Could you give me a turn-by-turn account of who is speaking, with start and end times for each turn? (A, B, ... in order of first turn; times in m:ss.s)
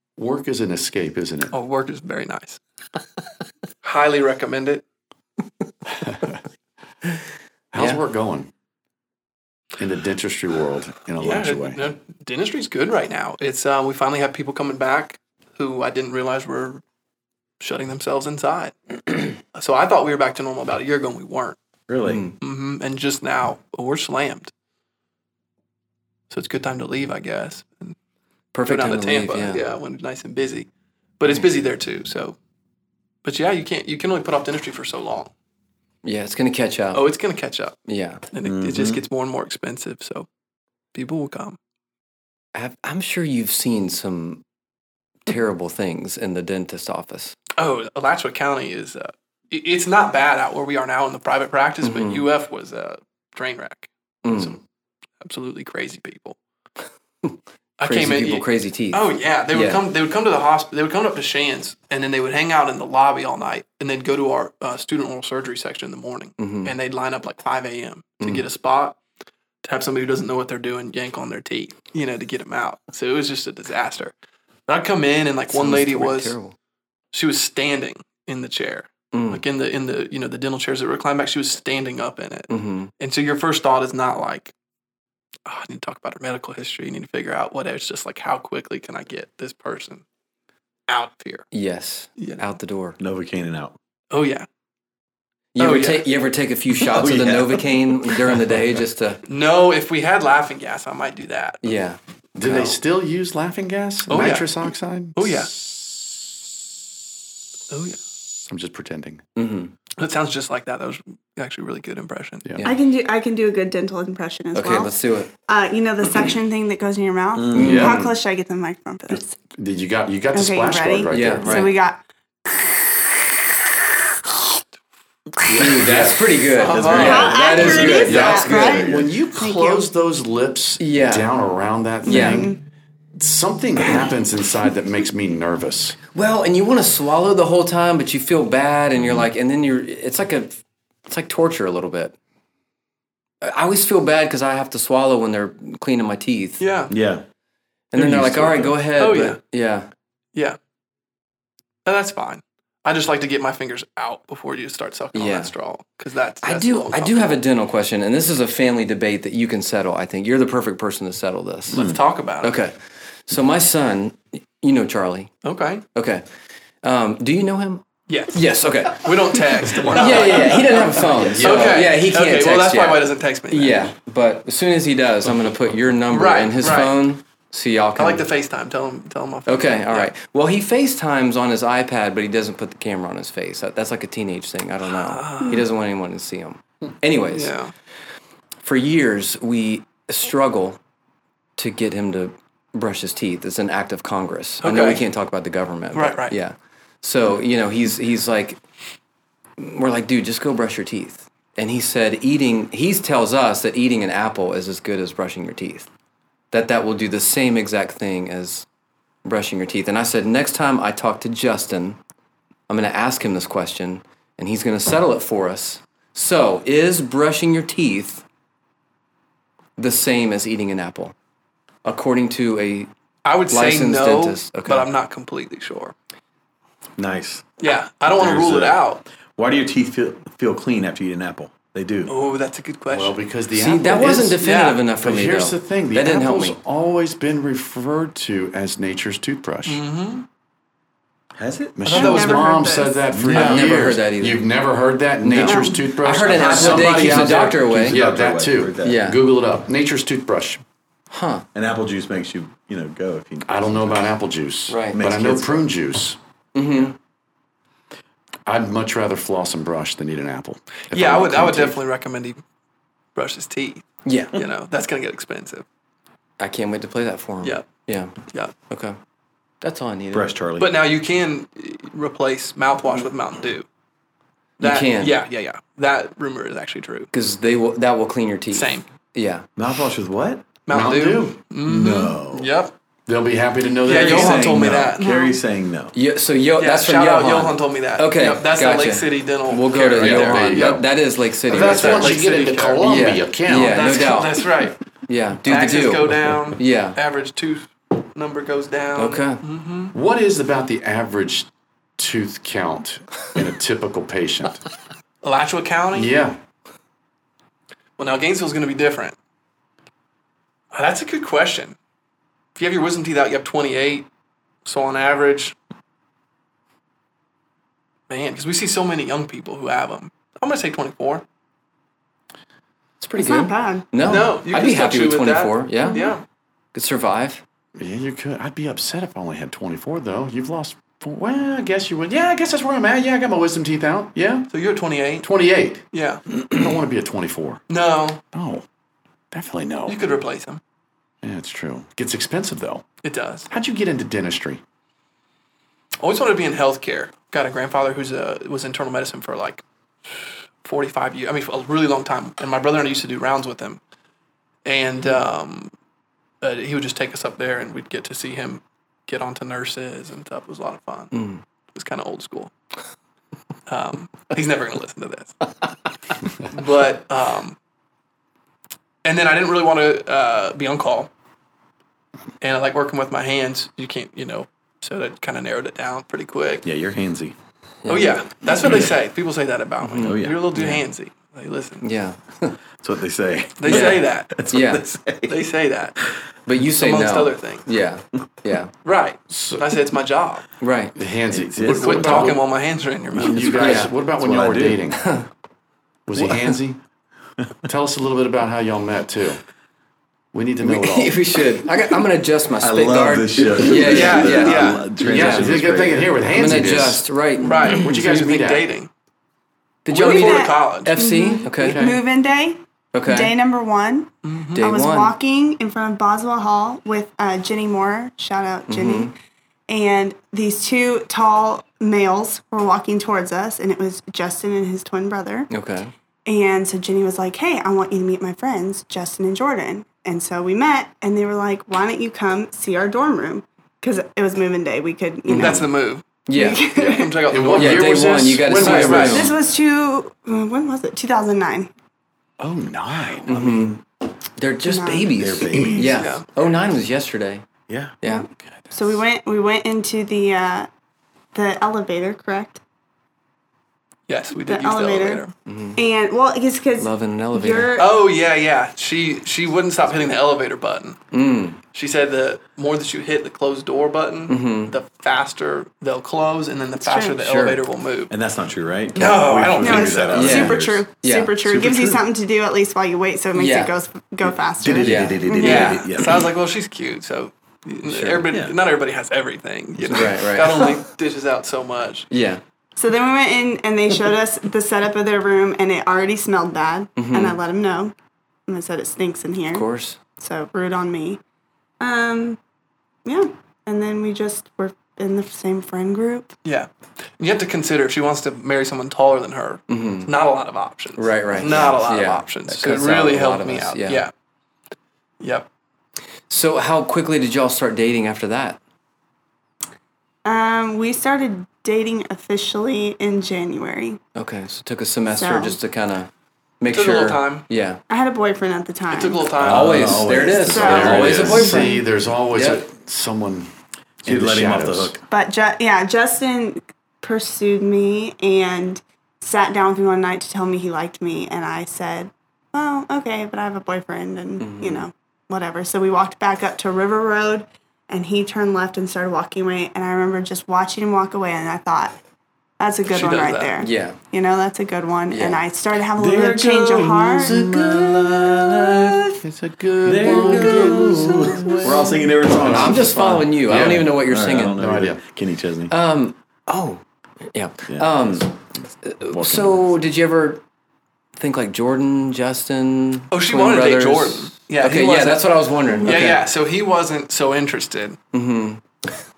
0:00.2-0:01.5 A
0:01.5-0:02.6 B
0:03.8-0:04.8 B
0:07.7-0:08.5 A
0:09.8-0:11.8 A
0:11.2-0:16.8 B
0:17.6-0:21.6 B
0:21.9-0:22.2 C
0:22.0-0:22.4 D
0:22.4-0:24.5 B
0:26.3-0:28.0 B
0:28.5-0:29.6 D
0:28.7-0:30.7 B
0:31.2-0:32.4 B
0:33.2-0:35.3 B
0:36.0-0:37.0 D
0:36.9-0:37.8 B
0:37.9-0:38.2 D
0:38.3-0:40.3 B
0:38.4-0:39.0 C
0:40.9-0:41.6 B
0:42.6-0:44.4 D
0:45.3-0:47.4 D
0:47.6-0:54.6 B
0:51.8-0:52.2 D
0:54.2-0:54.6 D
0:55.2-0:56.4 B
0:57.2-0:59.8 D
0:57.8-1:09.0 B
1:06.4-1:06.7 D
1:09.6-1:14.1 B
1:14.7-1:16.3 B
1:15.5-1:16.6 D
1:17.1-1:24.5 B
1:19.1-1:19.4 D
1:22.5-1:22.9 D
1:25.5-1:30.0 B
1:30.9-1:31.5 B
1:31.5-1:33.0 D
1:32.2-1:32.4 B
1:33.0-1:33.8 C
1:34.1-1:34.5 B
1:35.6-1:39.2 D
1:35.6-1:36.0 B
1:36.8-1:38.5 C
1:39.3-1:41.6 B
1:41.6-1:42.8 D
1:42.4-1:46.5 A
1:44.1-1:44.5 B
1:45.2-1:45.5 B
1:47.7-1:48.0 B
1:48.5-1:49.2 A
1:49.4-1:49.7 D
1:50.0-1:52.5 B
1:52.6-1:55.0 E
1:54.6-1:55.3 D
1:55.5-1:59.4 E
1:57.4-1:58.0 C
1:57.5-1:58.2 D
1:57.5-1:58.0 A
1:59.5-2:01.7 A
2:00.3-2:02.0 E
2:01.1-2:01.8 D
2:05.5-2:07.3 A
2:05.6-2:09.0 D
2:06.6-2:07.4 B
2:06.7-2:09.1 C
2:06.9-2:09.9 E
2:08.0-2:12.6 A
2:10.8-2:11.3 D
2:12.0-2:12.5 D
2:12.1-2:12.6 E
2:13.2-2:16.0 A
2:16.1-2:22.2 D
2:23.4-2:26.6 D
2:26.6-2:26.9 B
2:26.9-2:27.2 C
2:27.9-2:29.9 D
2:27.9-2:28.8 C
2:29.0-2:29.4 B
2:31.8-2:37.4 B
2:35.1-2:35.5 D
2:36.4-2:41.8 D
2:41.7-2:42.6 B
2:41.7-2:42.0 C
2:42.4-2:45.3 D
2:45.4-2:45.8 B
2:46.0-2:46.2 D
2:46.8-2:58.3 D
2:48.1-2:48.4 B
2:48.9-2:53.9 B
2:49.8-2:50.2 A
2:51.2-2:51.8 A
2:56.1-2:57.0 B
2:58.0-3:00.1 B
2:59.5-3:07.6 D
3:04.9-3:05.7 B
3:07.3-3:07.7 B
3:08.6-3:10.8 D
3:11.6-3:18.6 D
3:14.6-3:15.0 B
3:15.9-3:16.4 B
3:19.6-3:25.9 D
3:26.5-3:28.7 D
3:29.2-3:32.0 D
3:32.7-3:38.2 D
3:39.8-3:41.1 D
3:41.8-3:42.9 D
3:43.2-3:45.9 B
3:43.5-3:44.9 D
3:47.0-3:47.4 C
3:47.6-3:49.0 B
3:48.2-3:48.8 C
3:49.4-3:52.1 C
3:52.1-3:53.2 B
3:52.9-3:54.4 A
3:53.5-3:56.6 D
3:54.4-3:54.8 B
3:55.0-3:59.8 A
3:59.7-4:00.3 B
4:01.4-4:01.8 C
4:01.8-4:10.6 A
4:01.9-4:02.7 B
4:01.9-4:03.0 E
4:03.1-4:03.6 C
4:03.2-4:04.4 D
4:05.2-4:08.0 D
4:05.4-4:05.8 E
4:06.4-4:09.0 C
4:08.8-4:09.2 D
4:11.1-4:11.5 D
4:11.5-4:14.1 C
4:13.5-4:16.2 A
4:14.7-4:15.0 D
4:14.9-4:15.7 C
4:16.6-4:17.0 D
4:18.5-4:21.8 A
4:20.9-4:22.4 B
4:23.2-4:25.7 B
4:24.0-4:24.4 D
4:26.4-4:29.0 D
4:27.4-4:27.7 B
4:29.6-4:30.3 D
4:30.1-4:30.8 C
4:30.6-4:33.7 B
4:34.6-4:35.2 D
4:34.6-4:37.1 B
4:37.1-4:39.5 D
4:38.5-4:38.9 B
4:39.6-4:40.5 C
4:40.6-4:42.7 B
4:40.7-4:41.4 A
4:41.6-4:42.5 C
4:43.1-4:44.9 A
4:43.8-4:45.1 B
4:43.9-4:46.0 C
4:45.0-4:45.4 E
4:45.9-4:52.2 D
4:46.6-4:50.8 B
4:50.0-4:50.9 A
4:51.4-4:53.9 A
4:51.5-4:52.9 B
4:52.8-4:57.0 D
4:53.5-4:54.8 B
4:55.4-4:59.9 B
4:59.0-4:59.4 D
4:59.9-5:04.6 A
5:05.2-5:06.1 B
5:05.9-5:06.4 A
5:08.0-5:09.2 B
5:10.7-5:11.8 B
5:12.6-5:14.1 B
5:14.6-5:15.6 B
5:18.1-5:21.2 B
5:23.0-5:26.1 D
5:23.2-5:23.9 E
5:24.0-5:26.2 B
5:25.8-5:26.2 E
5:26.7-5:27.4 D
5:27.8-5:34.5 A
5:34.5-5:35.3 B
5:35.2-5:35.8 A
5:35.9-5:36.2 B
5:36.5-5:37.6 A
5:37.7-5:38.2 B
5:38.3-5:38.7 A
5:39.3-5:40.0 A
5:39.9-5:40.6 B
5:41.2-5:42.8 A
5:43.0-5:43.5 B
5:43.5-5:44.6 A
5:46.0-5:49.6 B
5:50.6-5:53.8 B
5:54.7-5:55.7 B
5:56.4-6:01.1 B
6:01.1-6:01.4 D
6:01.7-6:02.5 B
6:03.7-6:05.4 B
6:06.4-6:07.6 B
6:09.0-6:11.1 B
6:12.4-6:16.7 B
6:16.6-6:17.4 C
6:17.8-6:18.2 D
6:17.9-6:21.9 B
6:18.6-6:19.0 C
6:19.8-6:20.8 D
6:20.0-6:20.4 C
6:21.8-6:22.6 D
6:22.8-6:25.4 C
6:23.6-6:24.4 B
6:23.7-6:24.8 D
6:25.3-6:26.0 B
6:26.5-6:28.7 D
6:26.8-6:27.7 B
6:28.8-6:30.5 B
6:29.3-6:29.8 A
6:30.6-6:31.0 D
6:31.0-6:32.4 A
6:31.3-6:32.4 C
6:31.7-6:33.8 B
6:33.1-6:35.0 A
6:33.2-6:34.8 C
6:33.5-6:33.9 D
6:35.0-6:35.3 D
6:36.1-6:36.8 A
6:36.2-6:36.6 D
6:37.6-6:39.4 A
6:40.3-6:41.4 A
6:40.6-6:45.6 D
6:42.6-6:46.6 C
6:43.8-6:44.9 B
6:45.0-6:47.1 A
6:46.3-6:48.0 D
6:47.4-6:48.9 B
6:47.6-6:48.7 A
6:49.9-6:51.8 D
6:49.9-6:51.0 B
6:49.9-6:59.1 E
6:51.6-6:52.0 A
6:52.9-6:53.4 D
6:54.2-6:54.6 B
6:54.6-6:55.1 D
6:58.7-6:59.1 D
6:59.7-7:05.5 E
7:05.5-7:05.9 D
7:06.3-7:15.7 E
7:15.3-7:15.7 D
7:15.3-7:16.2 B
7:16.3-7:16.7 D
7:16.3-7:17.2 E
7:16.8-7:19.3 B
7:17.3-7:19.3 A
7:17.5-7:19.4 D
7:18.9-7:21.7 E
7:22.4-7:23.4 A
7:23.0-7:23.8 C
7:23.3-7:23.8 D
7:24.4-7:27.4 D
7:24.6-7:25.9 E
7:25.1-7:26.2 C
7:25.9-7:26.3 B
7:27.7-7:28.7 C
7:28.0-7:28.3 D
7:28.0-7:30.7 E
7:31.3-7:32.6 E
7:34.1-7:35.3 B
7:34.4-7:38.0 E
7:35.5-7:35.8 D
7:36.8-7:37.7 D
7:37.8-7:41.0 B
7:41.1-7:41.6 D
7:41.7-7:48.1 B
7:44.3-7:44.8 D
7:46.8-7:47.2 E
7:47.2-7:47.6 D
7:48.1-7:50.9 C
7:49.0-7:50.5 B
7:49.6-7:55.8 E
7:50.2-7:51.5 D
7:51.5-7:52.0 C
7:53.3-7:53.7 D
7:54.6-7:56.3 C
7:54.8-7:55.6 D
7:55.4-8:02.1 B
7:57.9-7:58.3 D
7:58.3-7:58.6 C
7:59.8-8:00.8 D
8:02.1-8:02.4 D
8:02.8-8:07.9 E
8:07.0-8:07.4 D
8:08.5-8:09.7 E
8:09.5-8:10.0 D
8:10.2-8:11.2 E
8:11.8-8:12.4 E
8:13.1-8:16.4 E
8:16.4-8:24.1 B
8:19.7-8:20.1 D
8:21.0-8:24.1 D
8:25.2-8:25.5 B
8:26.3-8:28.6 D
8:30.2-8:34.0 E
8:34.2-8:37.8 D
8:35.1-8:35.6 E
8:36.7-8:37.5 B
8:37.9-8:39.3 E
8:38.9-8:40.2 B
8:39.4-8:41.7 C
8:39.5-8:41.8 D
8:40.4-8:41.8 E
8:40.6-8:43.5 A
8:42.3-8:42.6 D
8:44.0-8:45.0 A
8:44.0-8:45.0 C
8:45.1-9:02.0 E
8:54.4-8:54.9 D
9:02.6-9:07.6 E
9:02.9-9:03.5 B
9:03.6-9:04.0 D
9:05.1-9:05.5 D
9:06.0-9:09.0 C
9:07.5-9:07.9 D
9:08.6-9:08.9 E
9:09.2-9:13.9 A
9:09.8-9:15.7 C
9:10.0-9:12.0 E
9:12.4-9:14.6 D
9:14.6-9:15.0 A
9:15.7-9:16.8 D
9:17.3-9:20.4 D
9:17.7-9:18.3 C
9:19.1-9:19.7 C
9:21.2-9:26.2 D
9:23.1-9:25.3 B
9:25.7-9:26.1 E
9:25.8-9:28.0 B
9:28.1-9:28.6 D